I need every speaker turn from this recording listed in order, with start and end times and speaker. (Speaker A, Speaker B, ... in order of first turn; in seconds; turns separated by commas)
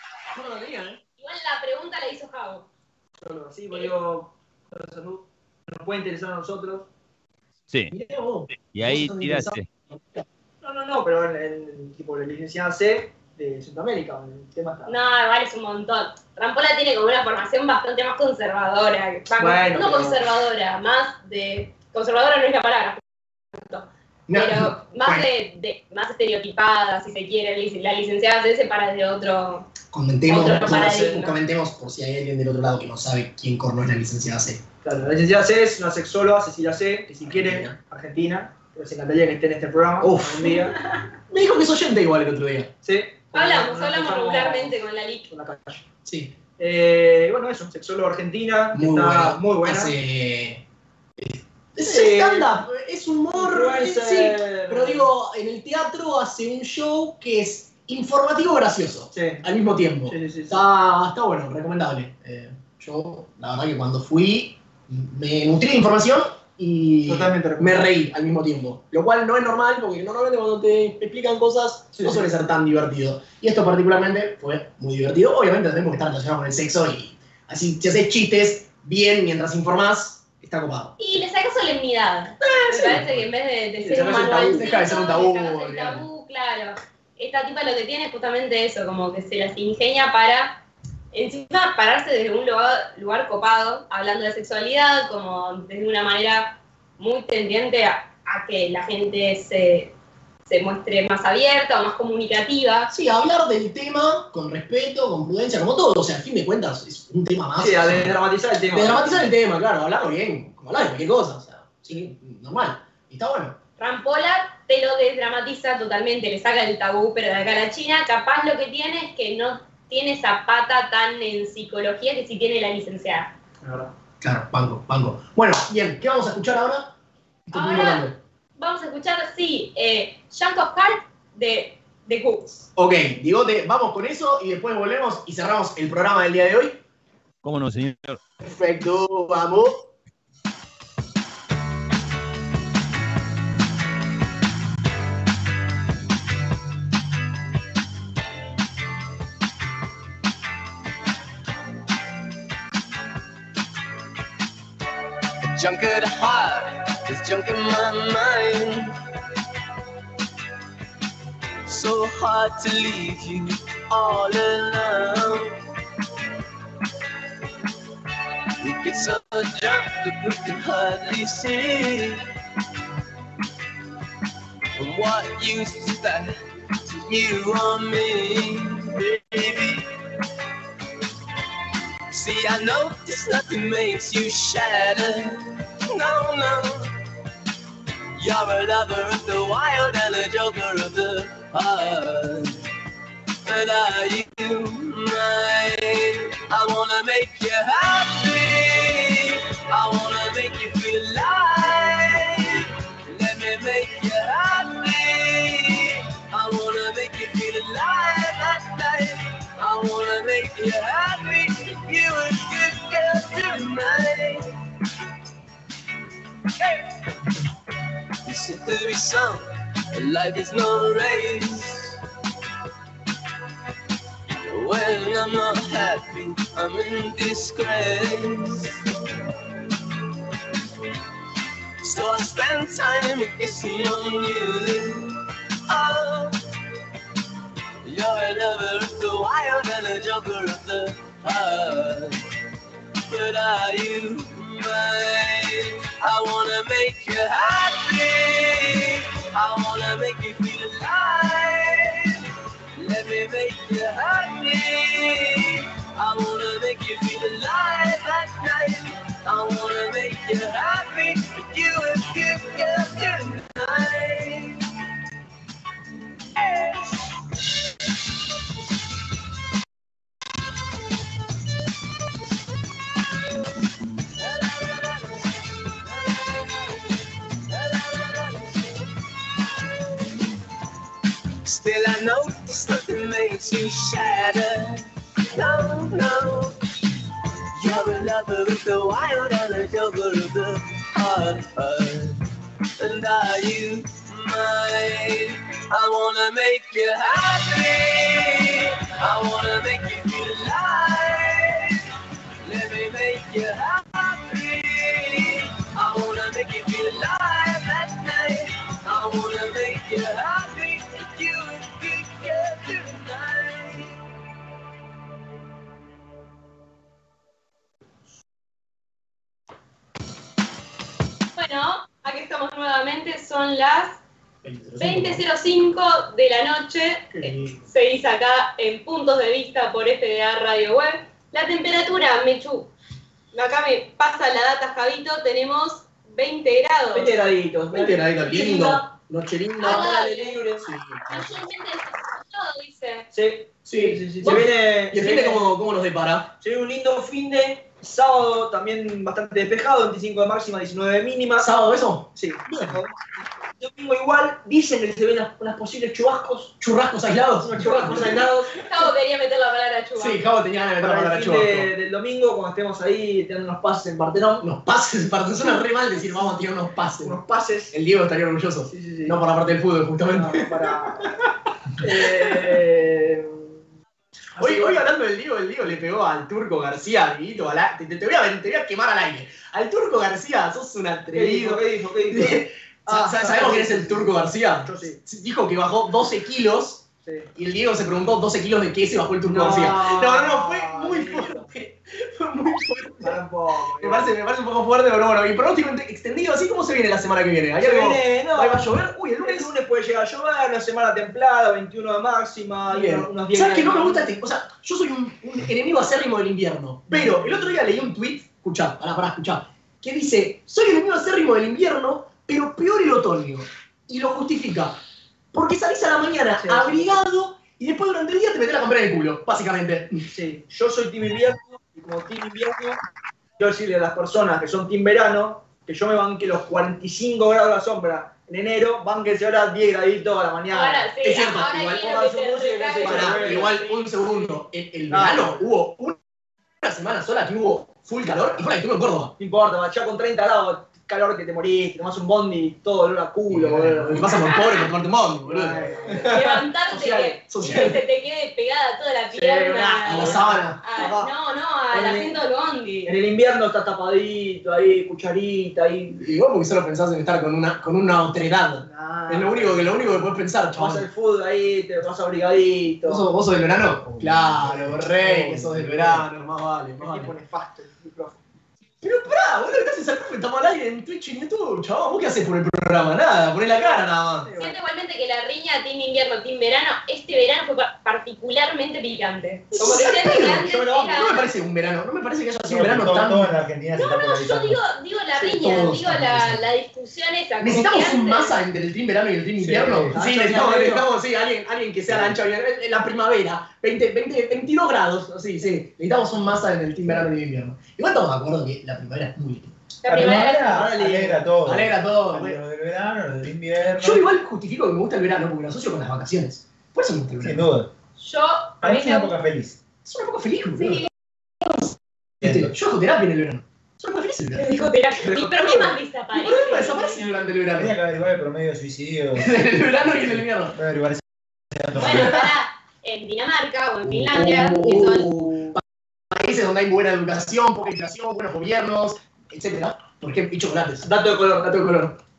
Speaker A: 0.3-1.0, Speaker B: 1.2-2.7, Speaker C: 3.2-6.9, Speaker A: 7.9-10.2, Speaker D: 8.5-9.7, Speaker C: 10.6-15.0, Speaker B: 14.9-23.0, Speaker C: 19.4-20.2, Speaker B: 23.5-29.7, Speaker A: 24.3-25.3, Speaker A: 29.9-34.6, Speaker B: 30.3-31.4, Speaker C: 34.8-40.8, Speaker A: 37.2-37.8, Speaker A: 40.0-40.6, Speaker A: 41.3-42.7, Speaker C: 42.8-45.9, Speaker B: 43.3-45.3, Speaker A: 46.1-46.4, Speaker C: 46.6-50.0, Speaker A: 48.7-50.6, Speaker A: 51.2-81.0, Speaker C: 51.8-52.5, Speaker C: 53.4-55.1, Speaker C: 59.1-59.5, Speaker C: 60.1-60.6, Speaker C: 67.1-67.8, Speaker C: 71.9-72.3, Speaker B: 81.0-99.9, Speaker A: 82.4-83.1, Speaker C: 83.8-84.6, Speaker A: 84.0-86.1, Speaker B: 100.5-102.9, Speaker A: 102.9-108.2, Speaker C: 107.6-109.3, Speaker A: 108.7-113.6, Speaker B: 113.8-123.3, Speaker C: 123.6-123.9, Speaker A: 124.2-127.0, Speaker A: 127.5-128.2, Speaker B: 127.5-132.7, Speaker A: 132.8-136.8, Speaker D: 137.4-138.2, Speaker A: 138.4-139.9, Speaker E: 155.4-159.0, Speaker E: 161.7-165.6, Speaker E: 168.6-172.2, Speaker E: 174.8-176.3, Speaker E: 176.9-179.9, Speaker E: 182.1-186.9, Speaker E: 188.2-192.6, Speaker E: 193.4-214.5, Speaker E: 218.2-222.0, Speaker E: 224.5-228.8, Speaker E: 231.8-236.4, Speaker E: 237.8-242.2, Speaker E: 243.1-252.2, Speaker E: 252.8-264.7, Speaker E: 266.4-267.1, Speaker E: 274.1-279.0, Speaker E: 281.4-286.6, Speaker E: 287.6-292.2, Speaker E: 292.8-301.9, Speaker E: 302.4-313.9, Speaker B: 321.4-324.0, Speaker A: 324.4-325.2, Speaker B: 324.8-332.7, Speaker C: 327.2-327.6, Speaker B: 333.3-337.1, Speaker C: 336.9-338.9, Speaker A: 337.7-341.4, Speaker B: 339.6-340.5, Speaker C: 339.6-340.7, Speaker B: 341.1-343.1, Speaker C: 343.1-345.6, Speaker A: 343.7-346.3, Speaker C: 346.4-351.6, Speaker A: 351.4-352.8, Speaker C: 352.1-356.5, Speaker A: 356.6-358.6, Speaker C: 357.6-358.6, Speaker B: 358.6-360.2, Speaker A: 360.0-361.7, Speaker C: 360.8-364.4, Speaker A: 364.4-367.2, Speaker C: 367.0-367.7, Speaker A: 367.7-371.1, Speaker C: 368.7-369.2, Speaker C: 370.1-371.2, Speaker C: 371.8-373.6, Speaker A: 371.8-372.5, Speaker C: 374.4-374.9, Speaker A: 374.4-393.2, Speaker C: 381.1-385.0, Speaker C: 387.1-387.3, Speaker C: 389.3-391.5, Speaker C: 393.0-394.1, Speaker A: 393.8-399.5, Speaker C: 397.6-404.1, Speaker A: 402.7-414.8, Speaker C: 406.9-407.6, Speaker A: 415.3-420.1, Speaker C: 416.4-417.0, Speaker C: 420.1-422.8, Speaker C: 423.4-430.9, Speaker B: 430.5-433.9, Speaker A: 431.0-432.1, Speaker C: 431.7-433.6, Speaker A: 432.8-436.0, Speaker C: 434.9-435.4, Speaker A: 436.6-439.1, Speaker C: 438.1-438.4, Speaker C: 439.2-444.6, Speaker A: 443.3-447.8, Speaker B: 444.1-444.7, Speaker C: 445.2-446.1, Speaker B: 446.0-452.9, Speaker C: 449.1-451.1, Speaker A: 449.8-450.6, Speaker C: 451.7-452.2, Speaker C: 452.9-456.1, Speaker A: 456.0-460.9, Speaker C: 458.6-463.1, Speaker A: 462.8-467.1, Speaker F: 463.8-466.0, Speaker C: 466.8-468.2, Speaker A: 468.8-474.3, Speaker C: 473.5-474.6, Speaker B: 474.4-481.3, Speaker A: 479.5-483.3, Speaker C: 479.6-481.1, Speaker F: 482.5-484.6, Speaker B: 483.7-488.4, Speaker A: 485.2-486.4, Speaker A: 487.4-499.6, Speaker F: 489.4-489.9, Speaker C: 489.9-490.9, Speaker F: 491.9-492.2, Speaker B: 499.8-500.7, Speaker F: 499.9-504.0, Speaker C: 500.5-501.2, Speaker A: 501.4-502.4, Speaker A: 503.8-507.5, Speaker F: 507.2-507.7, Speaker B: 508.0-509.1, Speaker F: 508.6-509.6, Speaker A: 509.8-510.9, Speaker B: 510.6-510.9, Speaker A: 511.4-514.7, Speaker F: 512.2-512.5, Speaker B: 514.4-517.1, Speaker C: 515.1-515.6, Speaker A: 516.1-517.8, Speaker F: 517.5-522.2, Speaker A: 519.2-520.6, Speaker B: 521.7-525.1, Speaker A: 521.8-522.3, Speaker A: 523.9-530.9, Speaker C: 525.1-525.5, Speaker C: 530.8-531.6, Speaker A: 531.4-532.0